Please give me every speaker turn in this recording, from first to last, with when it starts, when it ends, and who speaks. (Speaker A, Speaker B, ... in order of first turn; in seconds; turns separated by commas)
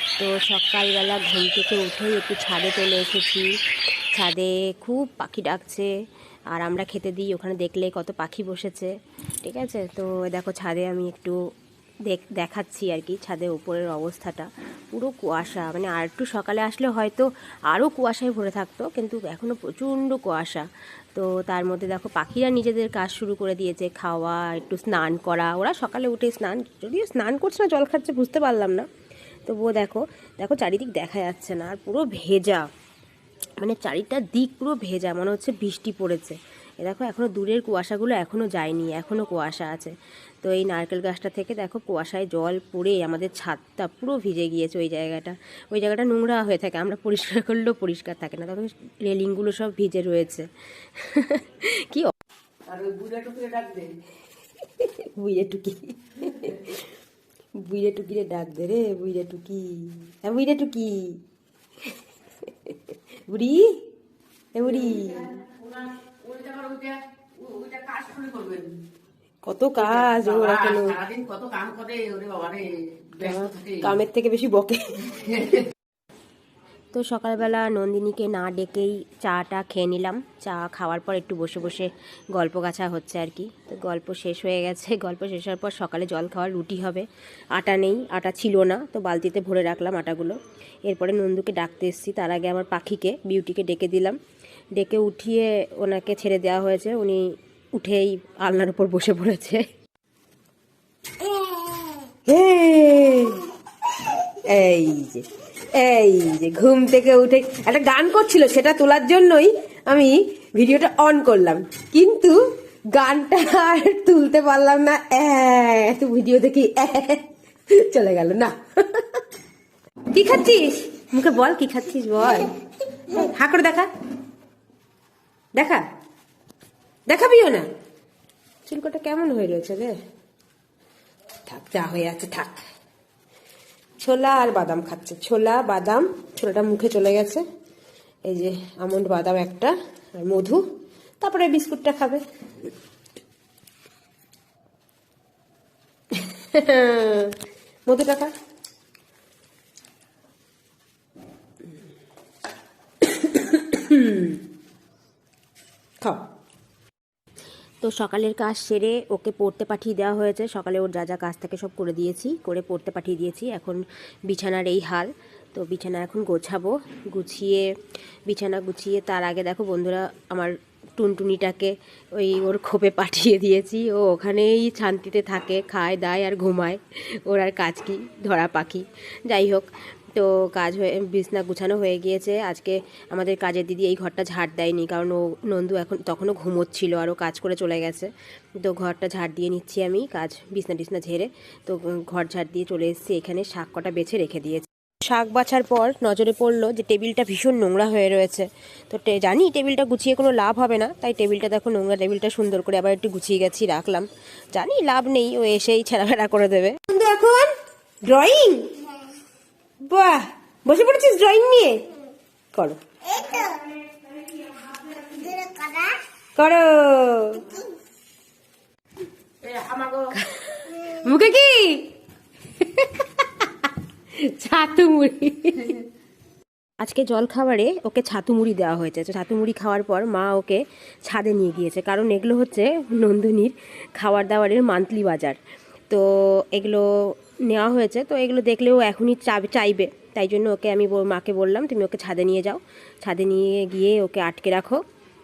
Speaker A: 0.2-3.6, Speaker A: 4.2-5.9, Speaker A: 6.5-11.4, Speaker A: 12.1-28.9, Speaker A: 29.5-32.7, Speaker A: 33.6-52.1, Speaker B: 52.7-54.0, Speaker A: 54.6-56.9, Speaker A: 57.6-61.2, Speaker A: 62.5-63.8, Speaker A: 64.5-65.5, Speaker B: 65.5-68.8, Speaker A: 69.5-71.1, Speaker B: 70.2-73.8, Speaker A: 73.2-75.6, Speaker A: 76.9-94.2, Speaker A: 94.8-99.7, Speaker A: 101.2-101.7, Speaker A: 102.3-103.5, Speaker A: 104.0-112.4, Speaker A: 112.9-119.2, Speaker A: 120.1-123.9, Speaker A: 125.5-125.8, Speaker A: 127.1-127.7, Speaker A: 128.7-129.9, Speaker A: 131.5-132.7, Speaker A: 134.0-137.4, Speaker A: 138.3-140.6, Speaker A: 141.2-142.2, Speaker A: 146.1-148.3, Speaker A: 153.0-154.4, Speaker A: 157.8-167.7, Speaker A: 168.3-207.6, Speaker A: 208.1-208.9, Speaker A: 209.9-211.8, Speaker A: 212.5-213.6, Speaker B: 214.6-215.9, Speaker A: 216.4-217.7, Speaker B: 219.4-220.1, Speaker A: 220.1-221.9, Speaker A: 222.6-225.8, Speaker A: 226.8-235.4, Speaker A: 235.9-244.8